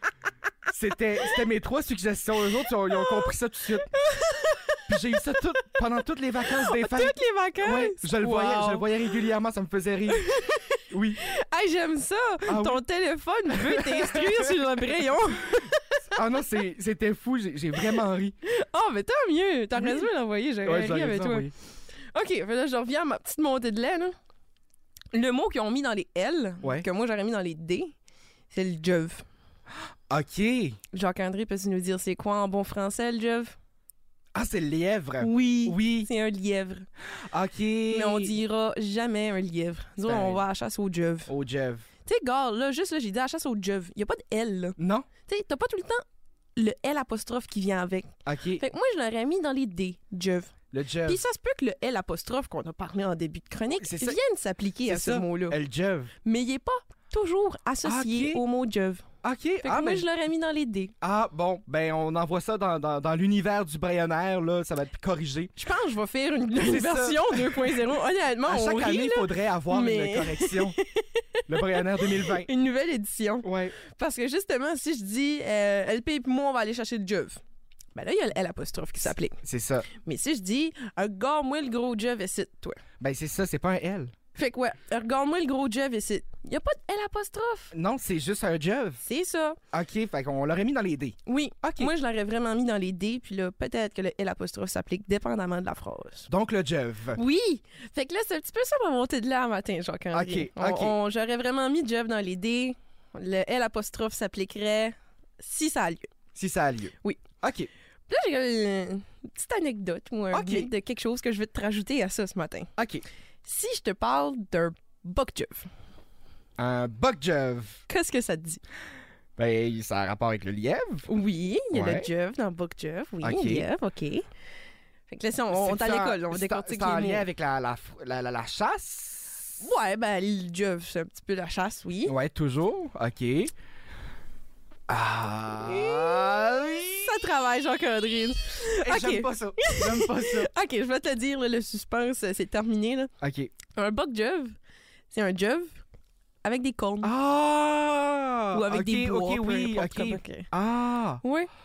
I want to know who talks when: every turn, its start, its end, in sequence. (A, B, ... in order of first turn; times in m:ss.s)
0:00.7-0:03.9 A
0:03.9-0:05.1 B
0:04.9-0:10.3 A
0:06.5-0:08.9 B
0:10.1-0:16.0 B
0:10.9-0:11.2 A
0:12.4-0:12.8 A
0:13.5-0:14.8 A
0:16.1-0:18.3 A
0:17.8-0:21.5 B
0:19.7-0:20.1 A
0:20.6-0:21.5 A
0:22.1-0:24.1 B
0:25.1-0:27.9 B
0:28.5-0:29.2 B
0:30.1-0:30.8 A
0:30.9-0:33.6 B
0:34.3-0:36.1 A
0:35.2-0:36.8 B
0:37.3-0:38.4 A
0:37.9-0:41.3 B
0:40.0-0:40.4 A
0:41.3-0:41.8 A
0:42.0-0:46.0 B
0:44.8-0:45.1 A
0:46.6-0:50.5 B
0:48.2-0:48.6 A
0:50.7-0:51.2 A
0:51.0-0:55.6 B
0:53.8-0:54.2 A
0:54.8-0:56.1 A
0:56.2-0:59.0 B
0:57.8-0:58.4 A
0:59.2-1:00.0 A
0:59.6-1:00.9 B
1:01.0-1:05.5 A
1:05.6-1:17.4 B
1:06.6-1:07.9 A
1:08.4-1:10.8 A
1:11.5-1:12.5 A
1:13.4-1:13.7 A
1:17.9-1:19.4 B
1:19.4-1:19.9 A
1:19.9-1:22.8 B
1:23.0-1:24.1 A
1:24.3-1:27.7 B
1:27.7-1:29.0 A
1:29.0-1:29.6 B
1:29.7-1:31.9 A
1:31.3-1:36.3 B
1:36.3-1:37.2 A
1:37.1-1:46.1 B
1:40.1-1:40.9 A
1:46.3-1:47.7 A
1:48.1-1:52.7 B
1:50.3-1:50.7 A
1:52.8-1:53.0 A
1:53.4-1:55.7 B
1:56.6-1:57.8 A
1:57.9-1:58.6 B
1:59.4-2:01.1 A
2:01.1-2:04.2 B
2:01.7-2:02.1 A
2:03.2-2:03.6 A
2:05.1-2:07.2 B
2:05.5-2:09.6 A
2:09.6-2:12.1 B
2:12.0-2:13.5 A
2:14.9-2:17.2 A
2:15.6-2:23.1 B
2:18.8-2:20.5 A
2:23.2-2:23.5 A
2:23.7-2:24.5 B
2:25.1-2:25.8 B
2:26.4-2:27.1 B
2:27.0-2:31.2 A
2:28.5-2:30.5 B
2:31.2-2:31.5 B